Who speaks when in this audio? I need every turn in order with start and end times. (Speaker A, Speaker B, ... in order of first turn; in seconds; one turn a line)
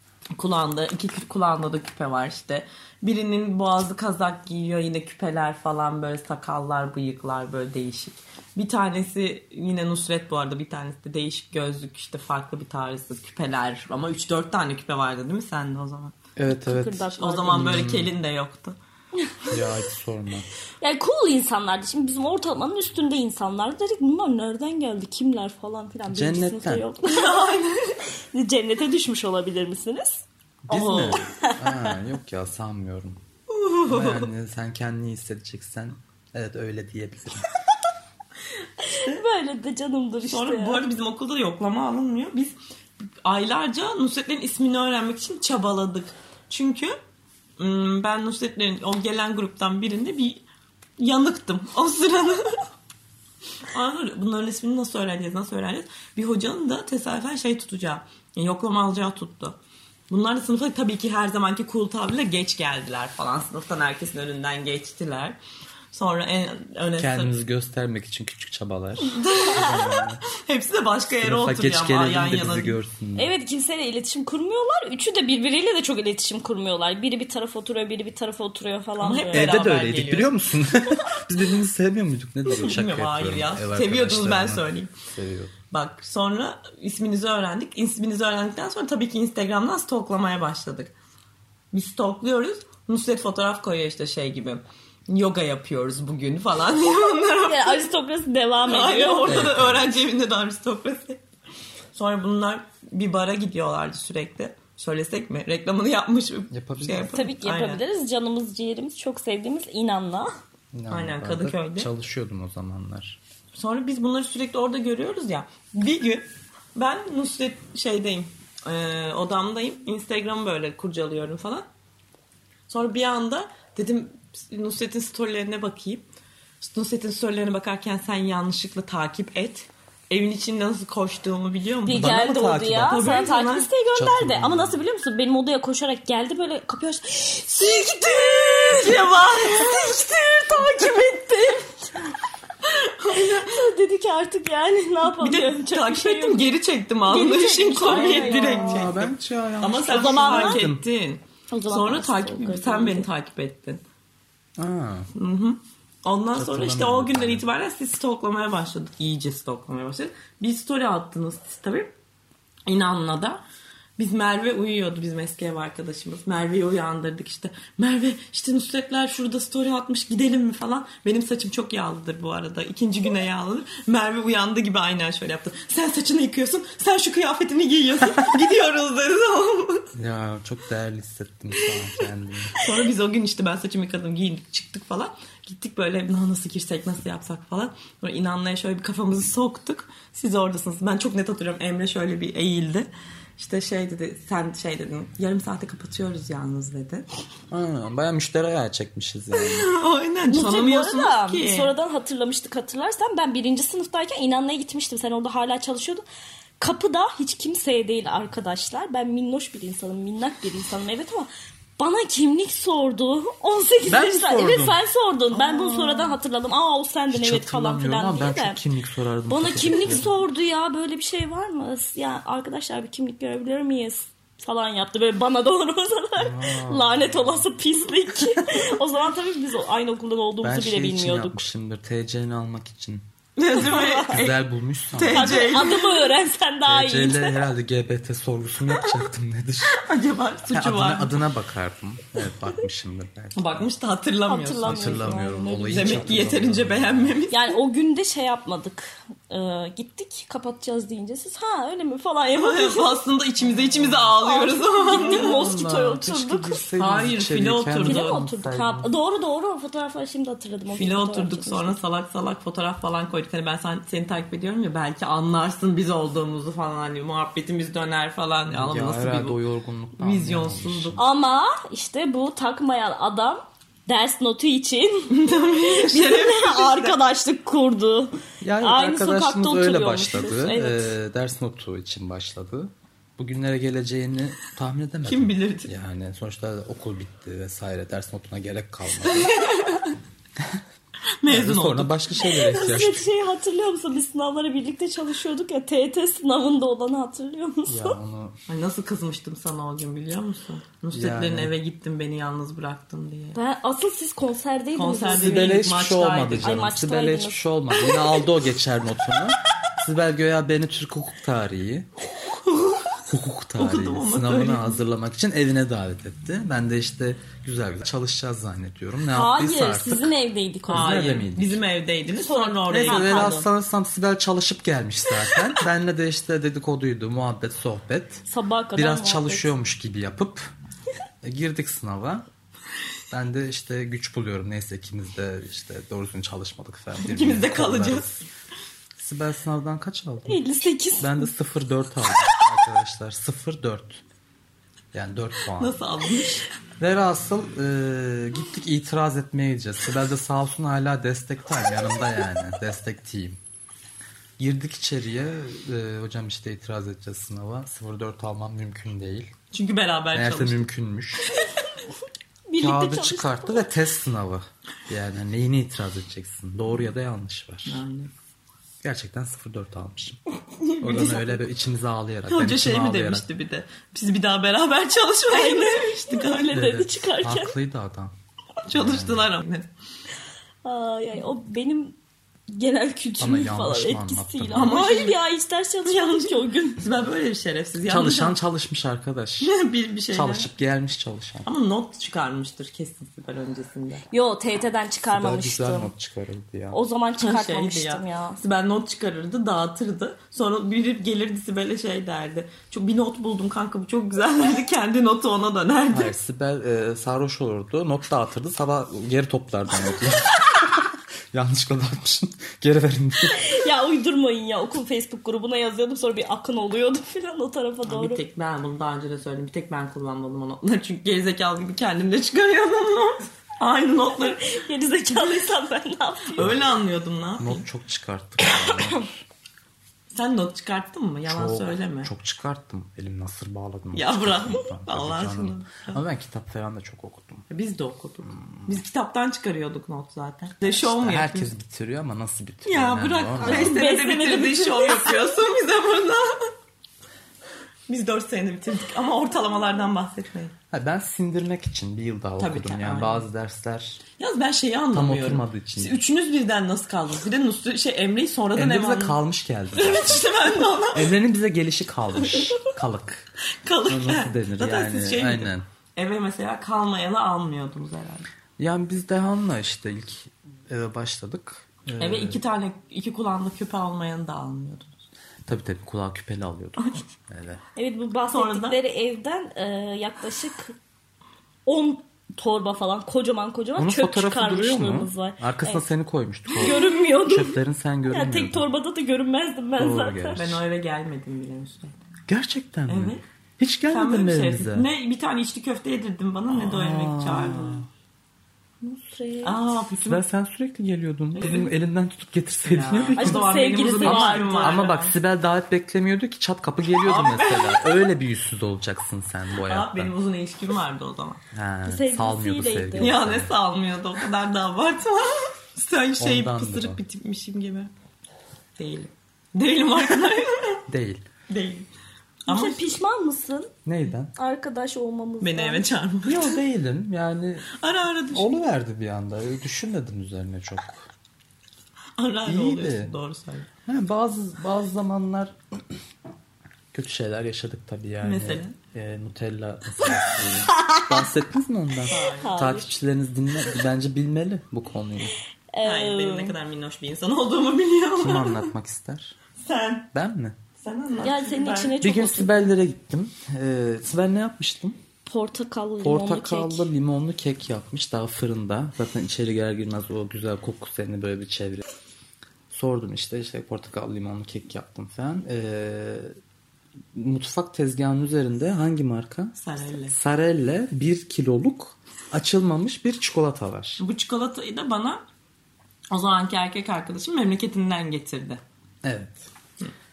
Speaker A: 0.3-16.1
Speaker B: 16.4-18.1
Speaker C: 16.5-17.8
Speaker A: 17.2-18.8
Speaker C: 19.3-19.5
Speaker B: 19.5-20.5
Speaker C: 20.8-27.4
Speaker B: 26.1-26.8
Speaker A: 27.0-28.0
Speaker C: 28.3-31.9
Speaker B: 30.7-33.2
Speaker A: 33.5-34.3
Speaker B: 33.9-37.5
Speaker C: 38.8-40.8
Speaker A: 38.9-39.2
Speaker A: 40.2-42.5
Speaker A: 43.2-46.9
Speaker A: 47.6-50.4
Speaker A: 51.0-52.6
Speaker A: 53.7-59.6
Speaker A: 60.1-65.4
Speaker A: 65.9-67.3
Speaker B: 67.0-70.2
Speaker A: 69.1-72.8
Speaker B: 71.2-73.3
Speaker C: 73.2-79.5
Speaker A: 79.0-80.3
Speaker B: 79.3-85.5
Speaker A: 82.5-84.9
Speaker A: 85.7-90.9
Speaker A: 91.7-97.9
Speaker C: 97.3-99.5
Speaker A: 98.6-101.2
Speaker B: 99.2-99.9
Speaker A: 101.9-107.8
Speaker B: 106.5-107.2
Speaker C: 107.1-110.3
Speaker B: 110.7-113.2
Speaker A: 110.9-111.9
Speaker A: 113.5-121.7
Speaker A: 122.7-126.0
Speaker A: 126.6-132.1
Speaker C: 131.8-142.0
Speaker B: 131.9-133.1
Speaker A: 132.8-133.7
Speaker B: 133.9-134.8
Speaker A: 138.7-140.0
Speaker A: 142.6-143.6
Speaker C: 143.1-146.5
Speaker A: 145.1-153.8
Speaker C: 147.1-148.9
Speaker B: 147.9-150.8
Speaker C: 149.9-150.7
Speaker C: 151.5-153.1
Speaker B: 154.6-155.1
Speaker A: 155.1-161.9
Speaker B: 156.3-157.4
Speaker A: 162.7-163.4
Speaker A: 164.0-179.9
Speaker B: 179.9-182.5
Speaker A: 182.5-197.1
Speaker B: 197.5-199.7
Speaker A: 199.3-201.7
Speaker C: 200.3-206.0
Speaker C: 206.6-218.6
Speaker B: 213.8-214.8
Speaker A: 215.3-216.1
Speaker B: 217.1-220.1
Speaker C: 219.3-231.4
Speaker B: 226.2-227.5
Speaker B: 230.4-233.0
Speaker A: 233.4-234.4
Speaker C: 233.5-234.2
Speaker B: 233.6-235.4
Speaker A: 234.9-236.1
Speaker C: 235.1-237.4
Speaker B: 236.7-239.8
Speaker A: 239.7-241.2
Speaker B: 240.5-243.7
Speaker A: 243.3-247.5
Speaker C: 244.3-246.3
Speaker B: 244.6-247.2
Speaker C: 247.3-253.0
Speaker A: 252.3-255.4
Speaker C: 254.2-256.6
Speaker B: 254.9-258.9
Speaker A: 256.8-258.3
Speaker C: 257.8-261.8
Speaker A: 260.7-269.4
Speaker B: 268.5-271.0
Speaker A: 270.0-271.0
Speaker C: 270.9-280.9
Speaker A: 275.1-277.0
Speaker B: 278.4-289.3
Speaker A: 285.0-285.7
Speaker A: 289.0-289.9
Speaker A: 291.2-292.0
Speaker B: 291.3-293.1
Speaker C: 292.2-297.9
Speaker B: 297.7-298.4
Speaker A: 298.5-303.4
Speaker B: 300.9-301.5
Speaker C: 303.3-305.7
Speaker A: 304.7-306.6
Speaker B: 305.1-311.9
Speaker C: 306.4-307.9
Speaker B: 313.0-320.1
Speaker A: 313.6-314.8
Speaker C: 319.1-321.0
Speaker B: 320.7-321.6
Speaker A: 320.7-323.5
Speaker C: 322.1-323.4
Speaker B: 322.7-328.2
Speaker C: 328.3-329.5
Speaker B: 328.8-330.5
Speaker B: 331.2-332.2
Speaker B: 333.1-338.2
Speaker A: 337.0-338.1
Speaker B: 339.0-340.4
Speaker C: 340.3-341.3
Speaker B: 341.0-344.0
Speaker B: 344.9-345.8
Speaker A: 345.5-346.4
Speaker B: 346.8-353.4
Speaker B: 354.4-359.3
Speaker A: 359.5-360.7
Speaker B: 360.1-361.3
Speaker C: 362.5-363.7
Speaker B: 362.6-367.8
Speaker A: 367.6-368.1
Speaker B: 368.8-370.2
Speaker A: 370.6-371.4
Speaker B: 370.8-373.2
Speaker A: 372.3-376.5
Speaker C: 375.3-377.5
Speaker B: 376.5-378.1
Speaker A: 378.6-379.7
Speaker B: 378.7-379.3
Speaker C: 380.6-381.9
Speaker C: 382.5-386.8
Speaker B: 383.2-384.8
Speaker A: 384.5-385.2
Speaker A: 385.8-388.4
Speaker B: 387.9-389.5
Speaker A: 389.4-390.5
Speaker B: 390.1-391.5
Speaker A: 391.4-394.0
Speaker C: 394.1-395.9
Speaker B: 395.1-396.8
Speaker C: 396.7-398.4
Speaker A: 397.2-406.1
Speaker B: 405.9-413.5
Speaker C: 413.3-418.2
Speaker A: 417.8-424.4
Speaker C: 424.1-426.5
Speaker A: 426.3-427.6
Speaker B: 427.4-429.2
Speaker C: 428.4-429.0
Speaker A: 430.1-432.1
Speaker B: 431.2-437.4
Speaker A: 433.9-436.0
Speaker A: 437.5-441.5
Speaker B: 438.3-438.8
Speaker B: 440.8-443.8
Speaker A: 442.6-446.5
Speaker C: 443.4-445.4
Speaker A: 447.9-450.5
Speaker B: 450.7-454.0
Speaker A: 452.4-453.2
Speaker A: 454.2-459.2
Speaker B: 454.9-456.0
Speaker B: 458.5-460.3
Speaker A: 459.7-461.1
Speaker B: 460.9-463.3
Speaker A: 462.2-462.7
Speaker A: 463.6-468.2
Speaker B: 463.9-465.6
Speaker B: 468.6-472.4
Speaker A: 472.0-474.9
Speaker B: 475.4-477.6
Speaker C: 477.8-480.7
Speaker A: 478.3-478.8
Speaker C: 481.6-485.8
Speaker B: 483.8-488.6
Speaker C: 486.6-490.4
Speaker B: 489.8-490.6
Speaker A: 490.4-491.9
Speaker B: 492.3-494.9
Speaker A: 492.9-493.2
Speaker A: 493.9-497.9
Speaker B: 496.5-497.9
Speaker C: 498.8-499.7
Speaker A: 499.4-500.2
Speaker B: 500.0-510.1
Speaker A: 501.4-501.7
Speaker A: 502.6-505.2
Speaker C: 503.1-504.9
Speaker A: 507.0-508.0
Speaker A: 509.6-511.4
Speaker B: 511.5-513.5
Speaker C: 511.9-513.2
Speaker A: 513.0-517.9
Speaker B: 516.2-517.0
Speaker A: 518.8-520.8
Speaker B: 520.9-521.2
Speaker A: 521.5-521.9
Speaker A: 522.5-523.0
Speaker C: 522.5-523.7
Speaker B: 523.9-524.3
Speaker C: 524.3-525.9
Speaker A: 525.4-526.6
Speaker B: 526.2-527.7
Speaker A: 527.8-528.5
Speaker B: 528.3-531.1
Speaker A: 532.2-533.7
Speaker B: 532.5-533.1
Speaker B: 533.9-535.8
Speaker B: 536.9-545.3
Speaker A: 538.2-538.8
Speaker C: 540.7-541.2
Speaker A: 542.1-542.5
Speaker C: 542.1-542.9
Speaker C: 545.7-546.5
Speaker A: 545.8-548.7
Speaker B: 548.2-549.3
Speaker A: 549.6-550.1
Speaker B: 550.1-550.6
Speaker A: 550.8-552.0
Speaker C: 551.2-552.7
Speaker B: 552.0-555.0
Speaker C: 555.3-556.9
Speaker B: 556.0-561.8
Speaker B: 562.7-566.3
Speaker B: 567.1-569.5
Speaker A: 569.6-570.1
Speaker B: 570.1-574.0
Speaker A: 574.0-575.2
Speaker A: 576.1-578.6
Speaker B: 579.0-579.5